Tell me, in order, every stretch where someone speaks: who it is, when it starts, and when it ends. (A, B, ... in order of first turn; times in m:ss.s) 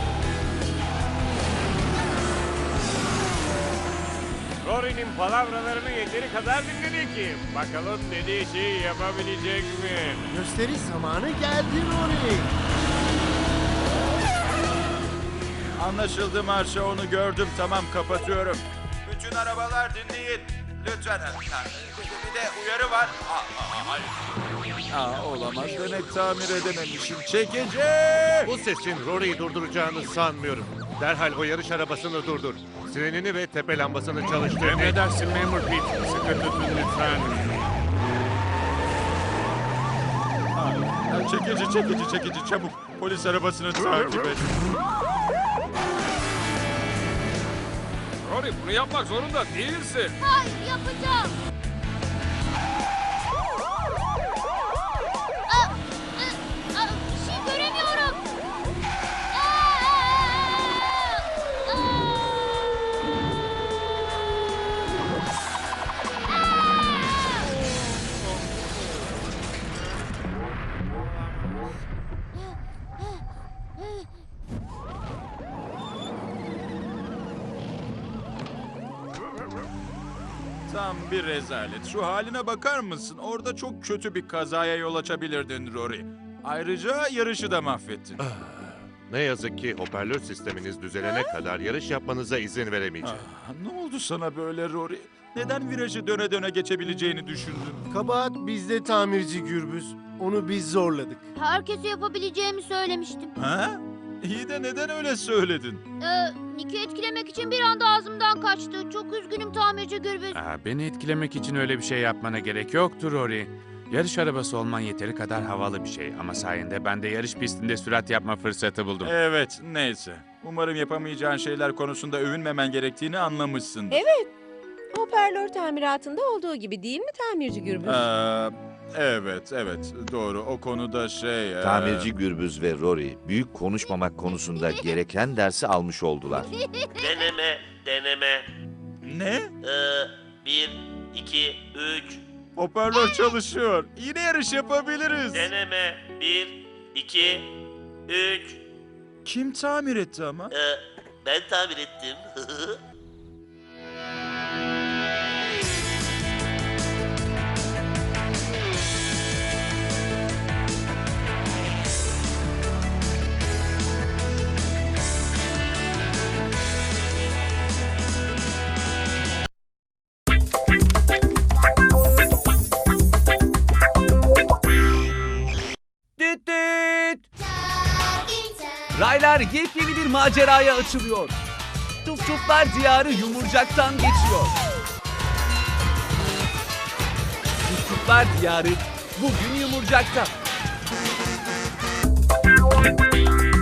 0:04.6-0:10.2 A
0:10.3-0:12.5 B
0:15.8-0:24.1 C
0:24.9-0:28.6 C
0:28.4-0:35.0 D
0:34.6-0:37.6 E
0:40.5-0:44.7 C
0:50.2-0:51.4 F
0:55.5-0:58.2 F
0:59.3-1:02.7 F
1:06.4-1:07.4 F
1:20.7-1:28.2 C
1:29.1-1:33.2 D
1:33.0-1:37.9 C
1:37.9-1:41.3 B
1:41.4-1:43.3 F
1:43.4-1:45.8 C
1:46.0-1:50.4 F
1:50.3-1:59.1 E
1:59.0-2:04.0 C
2:03.9-2:04.3 G
2:04.9-2:08.1 G
2:07.8-2:12.1 C
2:11.6-2:16.5 H
2:14.6-2:14.9 F
2:16.3-2:17.3 F
2:17.0-2:18.4 I
2:19.0-2:19.5 C
2:19.6-2:22.2 I
2:22.6-2:25.6 C
2:22.9-2:23.3 F
2:25.3-2:27.5 I
2:28.1-2:28.6 I
2:29.2-2:30.5 C
2:30.5-2:32.8 I
2:56.2-2:57.2 J
2:59.0-3:01.3 J
3:02.0-3:04.5 J
3:07.6-3:10.3 J